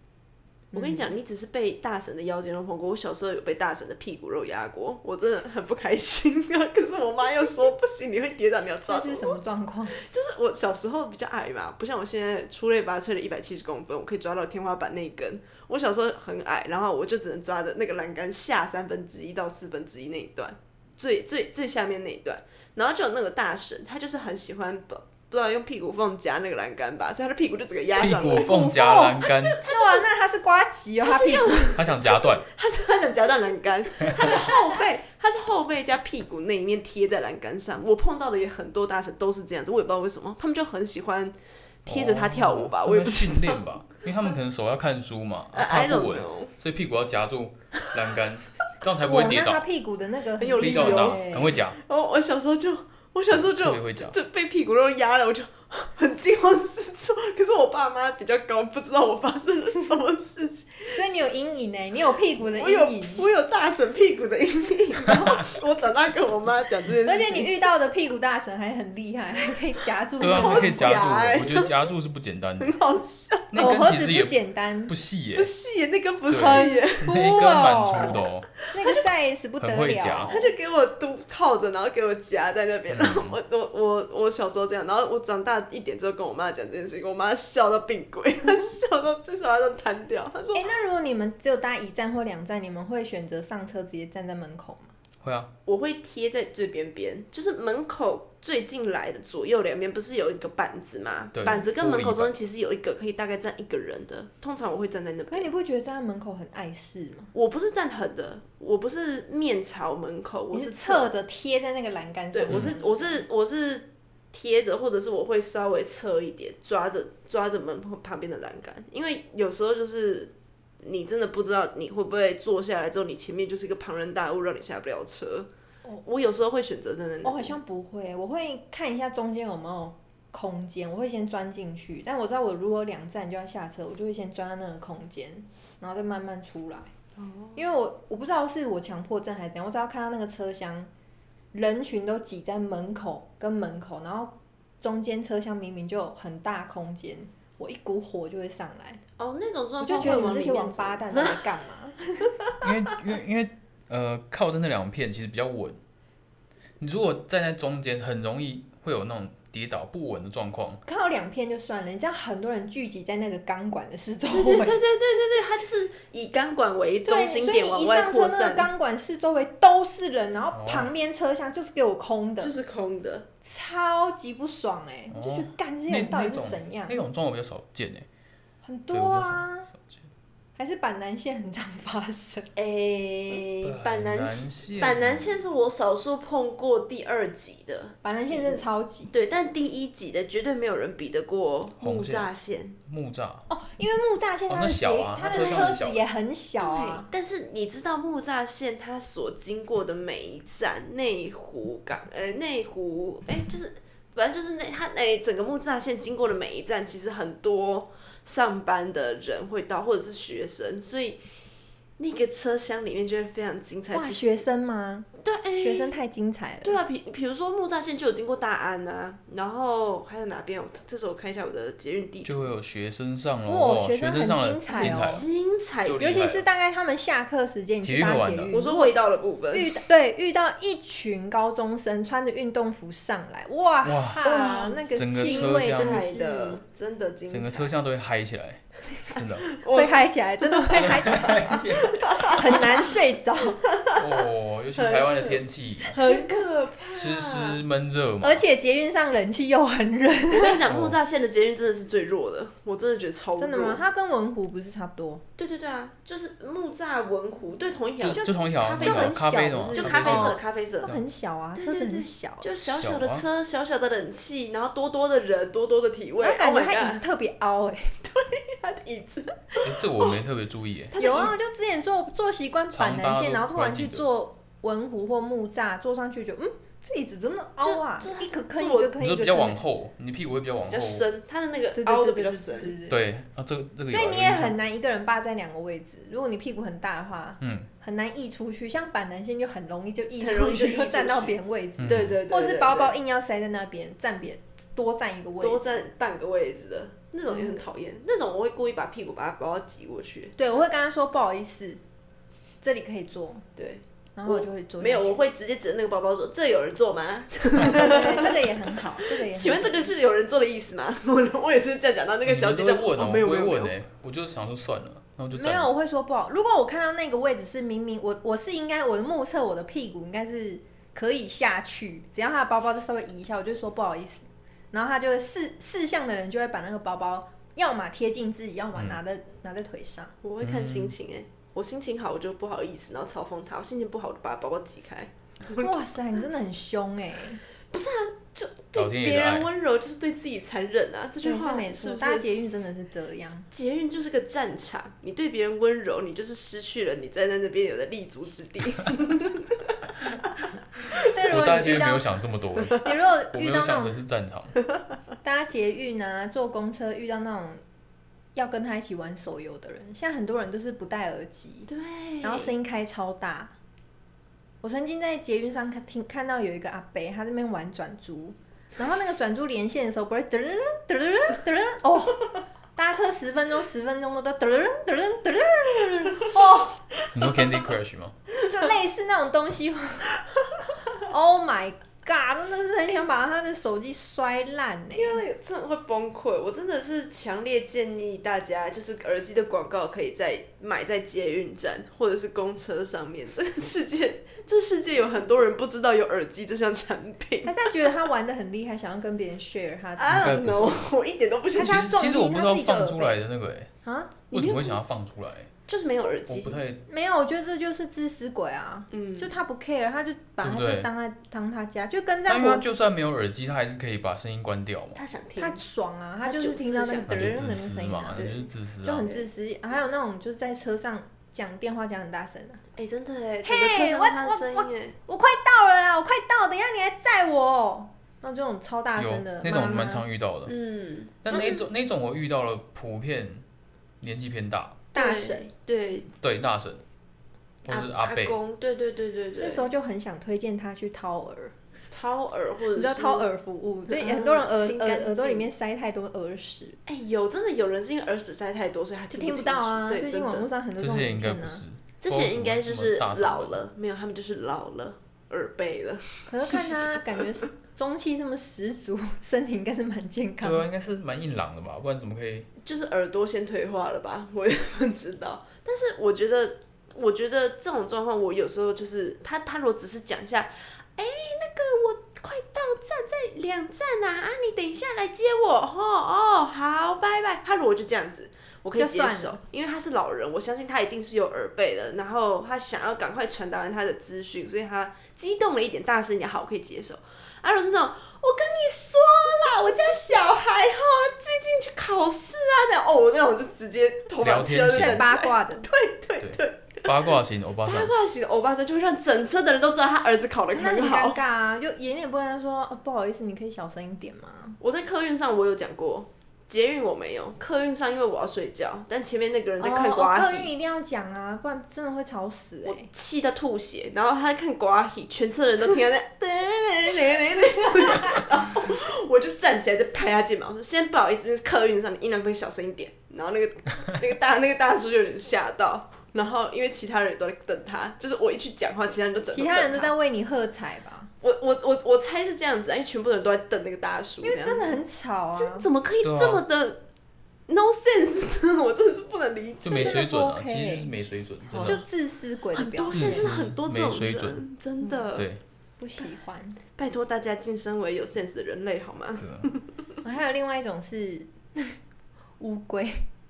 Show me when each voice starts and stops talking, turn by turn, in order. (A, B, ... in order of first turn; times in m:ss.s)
0:00.7-0:01.1 A
0:00.7-0:30.1 B
0:08.9-0:10.0 A
0:28.0-0:29.6 C
0:28.5-0:31.8 A
0:31.0-0:43.6 B
0:31.8-0:32.5 C
0:41.9-0:49.6 C
0:45.5-0:46.5 B
0:49.0-0:51.6 A
0:50.4-1:01.3 B
0:50.6-0:51.8 C
0:53.3-0:54.2 C
1:00.9-1:03.3 A
1:02.4-1:07.5 B
1:07.0-1:11.1 A
1:10.2-1:11.8 B
1:10.2-1:12.8 C
1:12.6-1:13.5 B
1:13.5-1:15.5 C
1:13.6-1:14.9 A
1:15.4-1:17.1 B
1:16.3-1:18.5 C
1:16.4-1:18.2 A
1:18.7-1:20.5 A
1:18.8-1:19.0 B
1:19.6-1:20.3 C
1:20.3-1:30.7 B
1:22.9-1:23.4 C
1:30.5-1:34.9 A
1:35.2-1:35.5 C
1:35.6-1:45.5 B
1:41.3-1:42.3 C
1:45.3-1:47.3 A
1:47.3-1:51.1 B
1:50.5-1:53.2 A
1:52.3-2:05.5 B
2:06.0-2:07.6 B
2:07.2-2:16.9 A
2:17.2-2:17.6 B
2:17.6-2:20.9 A
2:21.5-2:29.0 A
2:29.2-2:31.6 B
2:29.8-2:32.0 A
2:32.6-2:35.8 C
2:36.8-2:40.8 C
2:40.9-2:44.8 A
2:44.3-2:48.7 B
2:47.0-2:52.6 A
2:50.5-2:50.9 C
2:52.4-2:53.3 B
2:53.4-2:57.0 A
2:55.1-2:58.1 C
2:58.6-2:59.7 A
2:58.9-3:00.0 C
3:00.6-3:02.5 A
3:02.6-3:12.8 B
3:03.6-3:05.4 C
3:08.0-3:09.1 A
3:11.8-3:12.3 C
3:12.9-3:13.5 C
3:13.5-3:17.1 A
3:14.5-3:16.0 C
3:15.2-3:15.8 B
3:16.6-3:31.2 B
3:32.0-3:34.4 B
3:33.9-3:36.8 A
3:35.2-3:36.0 B
3:36.6-3:42.5 B
3:42.2-3:45.2 C
3:43.5-3:45.2 A
3:44.7-3:46.0 B
3:45.8-3:46.4 C
3:46.0-3:49.0 A
3:47.8-3:48.5 C
3:48.5-3:49.8 B
3:49.5-3:56.6 A
3:53.8-3:54.3 C
3:54.2-3:57.7 B
3:54.9-3:56.0 C
3:57.3-3:59.5 C
3:59.1-4:02.9 B
3:59.7-4:01.6 A
4:00.7-4:02.5 C
4:02.2-4:03.6 A
4:03.7-4:04.0 B
4:04.0-4:06.0 C
4:04.8-4:07.6 B
4:06.0-4:06.4 A
4:06.9-4:08.4 C
4:08.2-4:10.6 A
4:10.3-4:13.8 B
4:10.6-4:11.0 C
4:13.4-4:15.2 A
4:15.4-4:20.9 B
4:18.0-4:21.0 C
4:18.8-4:22.5 A
4:21.6-4:27.0 B
4:22.6-4:23.2 C
4:26.2-4:28.0 A
4:28.0-4:30.2 B
4:29.6-4:31.0 C
4:30.9-4:31.4 B
4:31.0-4:39.6 A
4:32.7-4:34.1 C
4:37.6-4:39.0 B
4:39.0-4:41.1 C
4:40.7-4:42.8 B
4:41.8-4:43.0 A
4:42.9-4:44.6 C
4:43.9-4:55.6 A
4:47.4-4:47.7 C
4:50.2-4:53.0 B
4:51.8-4:52.2 C
4:55.4-5:00.4 B
4:57.3-4:57.7 A
5:00.4-5:01.8 A
5:02.6-5:03.4 A
5:03.6-5:13.8 B
5:04.2-5:05.2 A
5:07.6-5:09.9 A
5:12.2-5:15.7 C
5:15.3-5:30.1 A
5:28.8-5:29.0 C
5:30.2-5:35.9 B
5:30.4-5:30.9 C
5:35.6-5:37.4 A
5:37.7-5:42.2 B
5:38.8-5:39.5 C
5:41.2-5:43.5 A
5:43.5-5:49.8 B
5:51.0-5:52.1 A
5:51.3-5:54.6 C
5:52.8-5:54.0 A
5:55.2-5:57.6 A
5:58.4-6:01.7 A
6:01.7-6:02.5 B
6:02.2-6:03.5 A
6:04.6-6:16.8 A
6:17.1-6:18.1 C
6:17.2-6:17.5 B
6:18.5-6:20.1 A
6:21.1-6:25.2 A
6:24.9-6:37.8 B
6:37.4-6:40.6 A
6:40.0-6:41.9 B
6:40.1-6:40.9 C
6:41.6-6:43.2 A
6:41.6-6:43.7 C
6:43.8-6:44.2 A
6:44.3-6:44.8 B
6:44.3-6:45.5 C
6:45.7-6:46.6 B
6:46.3-6:46.8 C
6:46.9-6:52.6 A
6:48.9-6:49.4 B
6:50.4-6:50.9 C
6:52.2-6:55.0 C
6:55.0-6:55.6 B
6:55.4-6:58.3 A
6:56.2-6:57.4 B
6:57.1-6:59.1 C
6:58.1-6:58.5 B
6:58.8-7:02.6 A
7:02.8-7:05.0 B
7:03.4-7:10.0 A
7:09.0-7:10.5 C
7:10.5-7:11.6 B
7:11.2-7:13.4 C
7:14.0-7:14.8 C
7:14.9-7:15.5 A
7:15.0-7:16.1 B
7:16.2-7:16.8 C
7:17.6-7:18.4 C
7:17.7-7:19.7 B
7:19.4-7:21.5 A
7:21.9-7:23.3 B
7:22.7-7:26.8 A
7:23.9-7:25.5 B
7:26.9-7:30.5 B
7:29.1-7:31.6 A
7:30.8-7:33.6 C
7:32.0-7:37.0 B
7:36.3-7:40.6 A
7:40.4-7:42.5 C
7:42.6-8:17.1 B
7:58.8-7:59.4 A
8:14.2-8:15.1 C
8:14.8-8:15.7 A
8:16.2-8:17.9 C
8:17.6-8:21.2 B
8:20.5-8:24.6 A
8:24.6-8:30.5 B
8:29.6-8:32.9 A
8:32.6-8:49.9 B
8:37.8-8:38.2 A
8:49.3-8:51.1 A
8:51.2-8:54.8 B
8:54.2-8:55.6 A
8:55.3-8:56.8 B
8:56.0-8:56.4 C
8:57.5-9:00.0 B
8:59.6-9:01.8 C
8:59.6-9:00.9 A
9:01.5-9:01.8 B
9:01.6-9:03.3 A
9:02.5-9:05.3 B
9:02.9-9:04.4 C
9:05.1-9:05.4 C
9:05.8-9:06.6 A
9:06.8-9:09.7 B
9:09.2-9:09.5 C
9:10.0-9:11.8 A
9:12.4-9:13.1 A